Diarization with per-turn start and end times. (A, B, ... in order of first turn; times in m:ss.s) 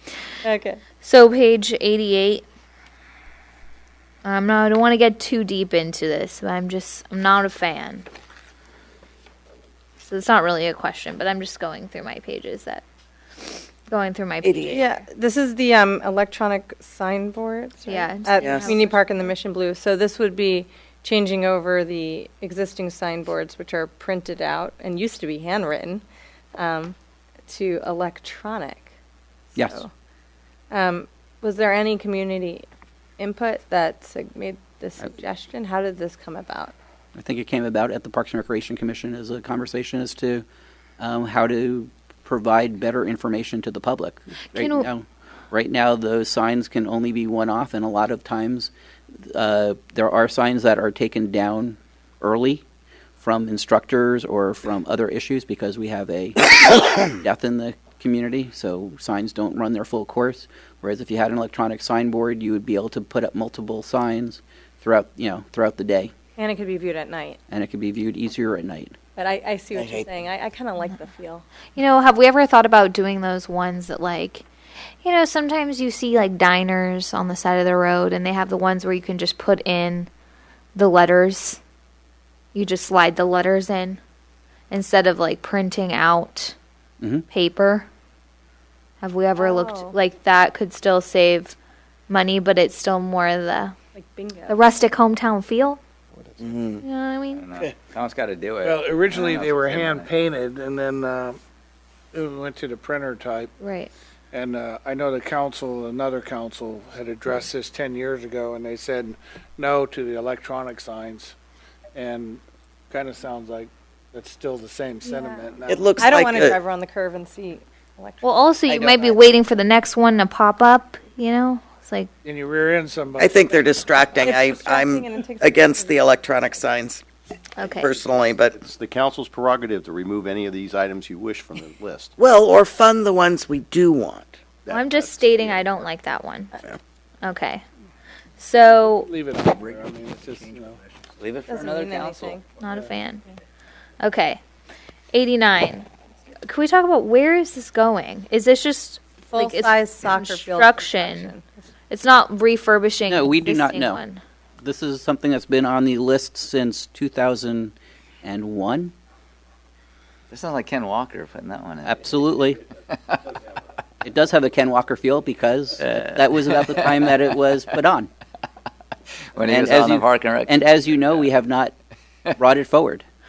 0:00.4-0:00.8 A
0:01.0-0:02.4 B
0:04.2-0:08.1 B
0:10.0-0:12.8 B
0:13.4-0:14.9 B
0:14.4-0:14.8 C
0:14.7-0:26.0 A
0:17.8-0:19.0 B
0:18.4-0:18.8 C
0:26.6-0:26.9 A
0:27.5-0:28.9 A
0:29.5-0:29.9 A
0:29.6-0:29.8 D
0:30.7-0:32.6 A
0:33.2-0:36.7 A
0:37.1-0:40.4 D
0:41.0-0:52.6 D
0:44.5-0:44.9 B
0:53.2-1:06.1 D
1:06.4-1:07.4 A
1:07.5-1:08.9 D
1:09.2-1:11.4 A
1:09.8-1:10.0 C
1:11.7-1:14.4 B
1:15.0-1:20.1 B
1:20.7-1:21.6 B
1:22.5-1:24.0 B
1:24.7-1:26.6 B
1:27.3-1:27.9 B
1:29.0-1:31.5 B
1:29.4-1:30.0 A
1:32.1-1:33.7 B
1:33.9-1:34.6 A
1:34.5-1:35.8 B
1:36.4-1:36.7 C
1:36.8-1:37.4 B
1:37.3-1:40.1 E
1:38.6-1:41.4 F
1:42.1-1:43.5 F
1:43.6-1:43.9 B
1:44.3-1:51.3 F
1:51.9-1:56.1 F
1:55.0-1:58.3 A
1:55.6-1:56.6 C
1:58.2-2:02.1 B
1:58.7-1:59.2 C
2:02.2-2:03.9 F
2:03.2-2:07.0 C
2:04.1-2:06.5 A
2:07.6-2:07.9 B
2:07.6-2:08.6 C
2:08.6-2:12.1 G
2:12.2-2:14.3 C
2:14.6-2:15.6 G
2:14.7-2:16.5 B
2:17.2-2:17.6 B
2:18.4-2:19.1 B
2:18.7-2:20.8 F
2:21.2-2:22.4 E
2:21.5-2:22.4 A
2:22.6-2:23.2 B
2:24.0-2:24.4 B
2:25.1-2:25.9 B
2:26.4-2:31.3 B
2:29.3-2:31.6 A
2:31.9-2:34.2 B
2:33.1-2:34.0 D
2:34.6-2:38.9 D
2:40.3-2:42.3 E
2:41.8-2:42.6 D
2:42.9-2:43.2 E
2:44.0-2:48.1 D
2:45.8-2:47.1 E
2:49.3-2:51.1 E
2:49.4-2:51.7 D
2:52.4-2:53.0 D